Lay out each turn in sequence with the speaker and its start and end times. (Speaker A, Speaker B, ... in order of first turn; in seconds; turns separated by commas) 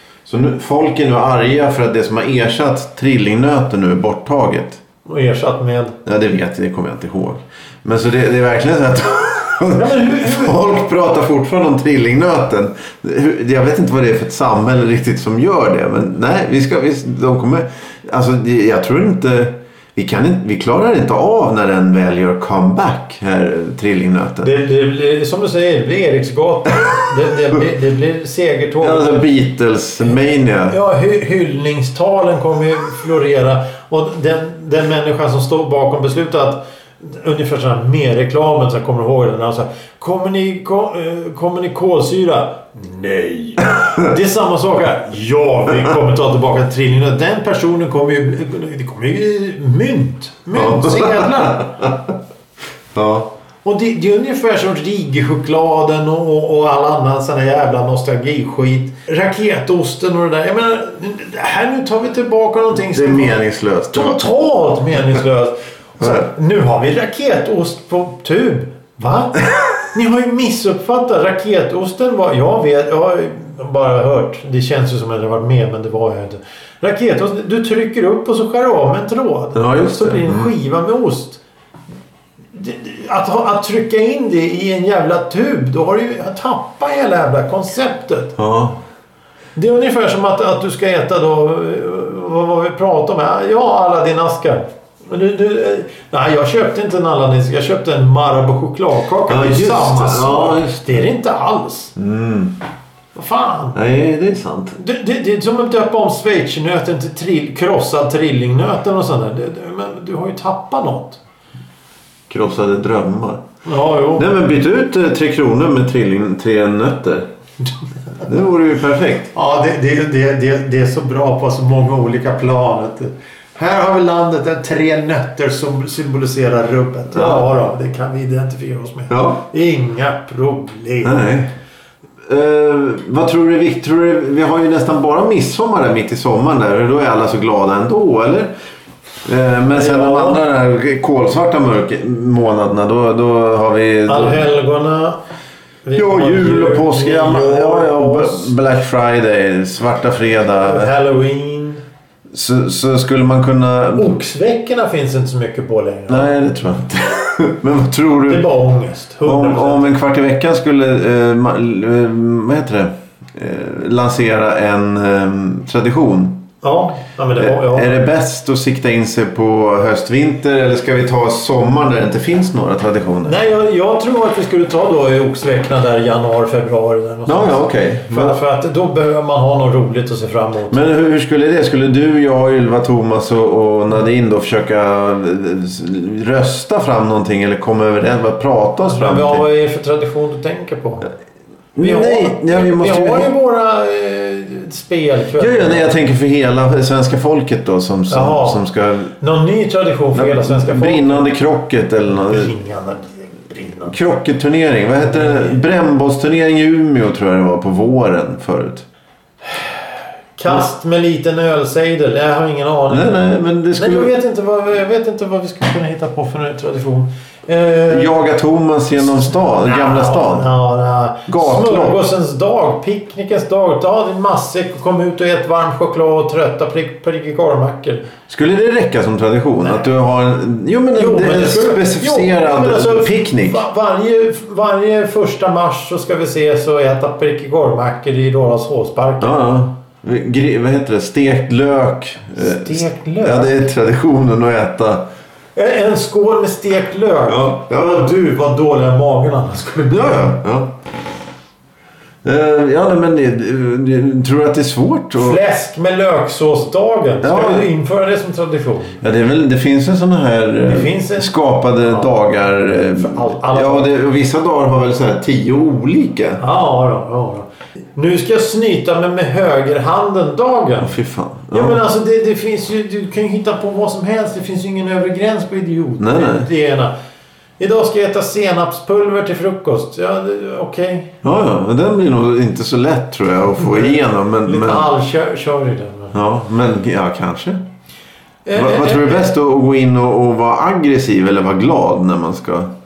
Speaker A: 0.3-4.8, Speaker B: 5.0-6.0, Speaker A: 6.0-24.5, Speaker B: 9.7-10.6, Speaker B: 24.4-29.2, Speaker A: 28.8-30.8, Speaker B: 30.7-51.8, Speaker A: 50.5-52.1, Speaker A: 52.9-53.3, Speaker B: 53.6-63.4, Speaker A: 62.9-64.2, Speaker B: 63.9-81.4, Speaker A: 79.5-80.5, Speaker B: 82.5-88.4, Speaker A: 88.4-88.8, Speaker B: 89.6-102.0, Speaker A: 99.3-101.0, Speaker A: 102.0-102.5, Speaker B: 103.2-103.8, Speaker A: 103.8-104.8, Speaker B: 104.8-111.2, Speaker A: 112.3-113.5, Speaker B: 113.7-114.3, Speaker A: 114.2-117.3, Speaker A: 118.2-119.3, Speaker B: 119.3-131.2, Speaker A: 127.1-127.5, Speaker A: 129.1-129.4, Speaker A: 131.0-131.5, Speaker A: 132.3-138.5, Speaker A: 139.2-144.4, Speaker B: 139.7-140.4, Speaker B: 144.1-145.2, Speaker B: 145.8-148.5, Speaker A: 145.9-150.9, Speaker B: 150.6-151.8, Speaker A: 152.3-154.2, Speaker B: 154.0-156.3, Speaker A: 156.1-158.5, Speaker B: 158.3-159.9, Speaker A: 159.2-166.4, Speaker B: 166.6-168.0, Speaker A: 167.4-173.3, Speaker B: 173.2-180.8, Speaker A: 177.3-178.4, Speaker A: 180.7-189.4, Speaker B: 188.8-191.1, Speaker A: 191.8-193.3, Speaker B: 191.8-196.0, Speaker A: 195.4-199.1, Speaker B: 198.1-198.6, Speaker B: 199.2-201.3, Speaker A: 200.1-202.5, Speaker B: 202.1-203.9, Speaker A: 203.9-208.8, Speaker B: 205.0-205.6, Speaker B: 209.5-209.8, Speaker B: 210.4-213.2, Speaker A: 212.9-214.1, Speaker B: 213.8-218.2, Speaker A: 217.9-220.5, Speaker B: 219.3-228.1, Speaker A: 221.3-222.0, Speaker A: 228.3-233.6, Speaker B: 231.0-239.3, Speaker A: 239.2-245.1, Speaker B: 242.4-243.7, Speaker B: 245.6-250.4, Speaker A: 247.3-248.2, Speaker A: 249.9-250.8, Speaker A: 252.2-255.4, Speaker B: 255.2-259.0, Speaker A: 257.2-257.7, Speaker A: 259.0-266.4, Speaker B: 260.6-261.3, Speaker B: 261.9-262.1, Speaker B: 262.9-263.9, Speaker B: 266.4-270.9, Speaker A: 270.8-271.8, Speaker B: 271.5-276.9, Speaker A: 276.0-276.5, Speaker B: 277.6-281.2, Speaker A: 281.2-284.9, Speaker B: 283.6-286.2, Speaker A: 286.1-287.6, Speaker B: 288.4-289.3, Speaker A: 288.6-292.7